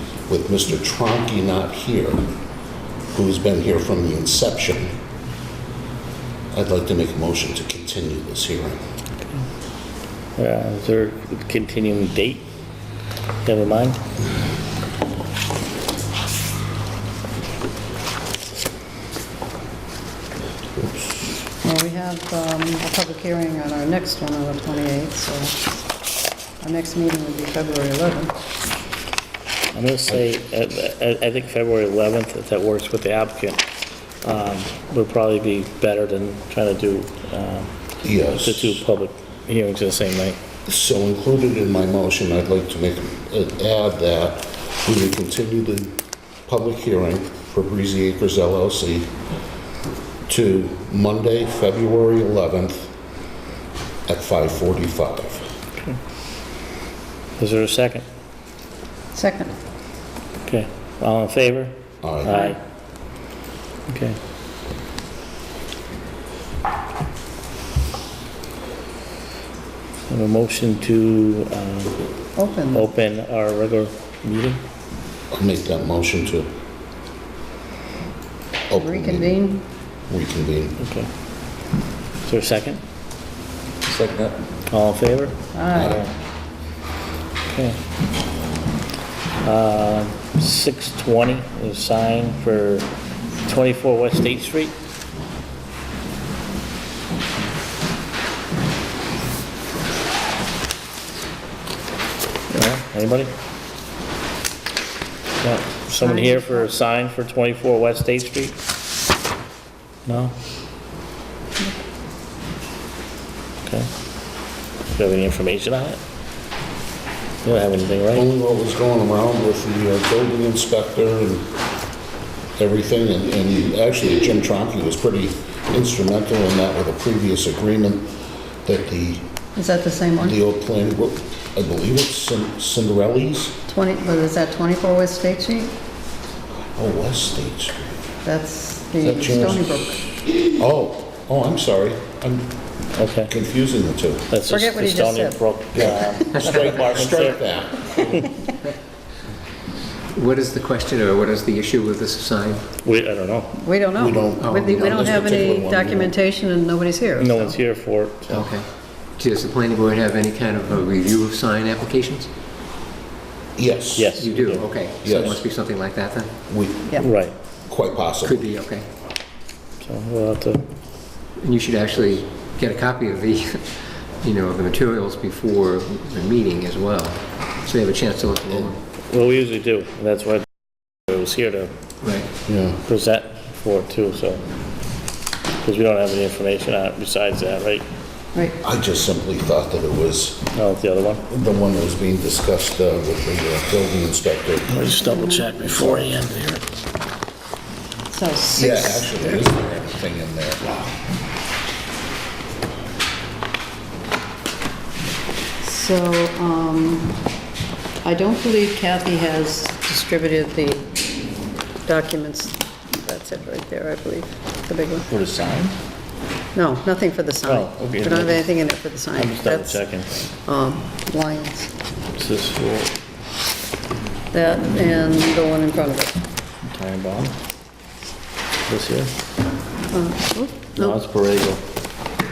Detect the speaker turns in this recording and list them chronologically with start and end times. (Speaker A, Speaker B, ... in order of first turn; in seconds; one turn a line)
Speaker A: 0.3-2.3
Speaker A: 3.1-5.0
Speaker A: 6.5-8.8
Speaker B: 10.4-12.5
Speaker B: 13.4-14.0
Speaker C: 21.6-25.5
Speaker C: 26.6-28.3
Speaker B: 29.7-33.6
Speaker B: 34.2-37.7
Speaker A: 38.0-38.8
Speaker B: 38.3-40.4
Speaker A: 40.7-49.1
Speaker A: 50.3-52.9
Speaker A: 54.1-55.5
Speaker B: 57.4-58.0
Speaker C: 59.1-59.5
Speaker B: 60.4-62.6
Speaker A: 62.0-62.4
Speaker C: 62.3-62.6
Speaker B: 63.9-64.2
Speaker B: 70.1-72.0
Speaker C: 72.4-72.9
Speaker B: 72.7-74.6
Speaker A: 75.3-76.5
Speaker A: 78.7-79.4
Speaker C: 78.7-79.6
Speaker A: 80.1-80.8
Speaker B: 80.8-81.1
Speaker B: 82.2-82.8
Speaker B: 84.7-85.4
Speaker C: 85.5-86.0
Speaker A: 85.7-86.0
Speaker B: 87.5-87.8
Speaker B: 89.4-92.9
Speaker B: 93.5-94.7
Speaker B: 102.5-103.3
Speaker B: 105.4-108.6
Speaker C: 106.0-106.7
Speaker B: 110.1-110.3
Speaker B: 114.9-116.0
Speaker B: 117.4-118.3
Speaker A: 118.1-121.5
Speaker A: 122.6-128.1
Speaker A: 128.7-129.3
Speaker C: 129.6-130.4
Speaker A: 130.2-133.6
Speaker C: 133.7-135.7
Speaker A: 136.6-138.0
Speaker C: 138.2-140.0
Speaker A: 139.0-139.7
Speaker A: 140.6-142.5
Speaker B: 143.0-143.3
Speaker A: 143.3-144.3
Speaker B: 144.3-148.2
Speaker C: 144.5-145.4
Speaker A: 145.7-148.3
Speaker D: 150.1-152.7
Speaker B: 152.8-153.6
Speaker C: 153.6-157.6
Speaker A: 154.0-156.1
Speaker D: 154.4-155.6
Speaker B: 157.2-158.5
Speaker D: 158.3-162.3
Speaker A: 163.6-164.2
Speaker B: 164.0-164.7
Speaker D: 164.2-166.3
Speaker A: 165.0-165.4
Speaker A: 166.5-167.1
Speaker B: 167.0-167.3
Speaker A: 167.7-168.4
Speaker D: 168.2-168.9
Speaker B: 169.8-170.6
Speaker D: 171.4-178.8
Speaker B: 179.1-180.4
Speaker B: 181.1-181.7
Speaker D: 182.0-182.3
Speaker A: 182.4-182.8
Speaker B: 182.8-184.4
Speaker B: 185.6-187.8
Speaker A: 188.6-190.4
Speaker B: 190.5-191.2
Speaker A: 191.3-194.8
Speaker B: 194.7-196.6
Speaker C: 194.9-195.6
Speaker C: 198.1-199.5
Speaker A: 198.6-200.9
Speaker C: 205.6-207.2
Speaker C: 208.0-211.0
Speaker C: 211.8-215.1
Speaker B: 215.1-215.8
Speaker C: 216.6-221.7
Speaker B: 217.4-218.5
Speaker B: 219.1-220.3
Speaker B: 222.2-222.9
Speaker C: 224.3-226.2
Speaker B: 226.7-227.3
Speaker B: 228.7-229.1
Speaker C: 229.9-231.0
Speaker B: 230.8-231.6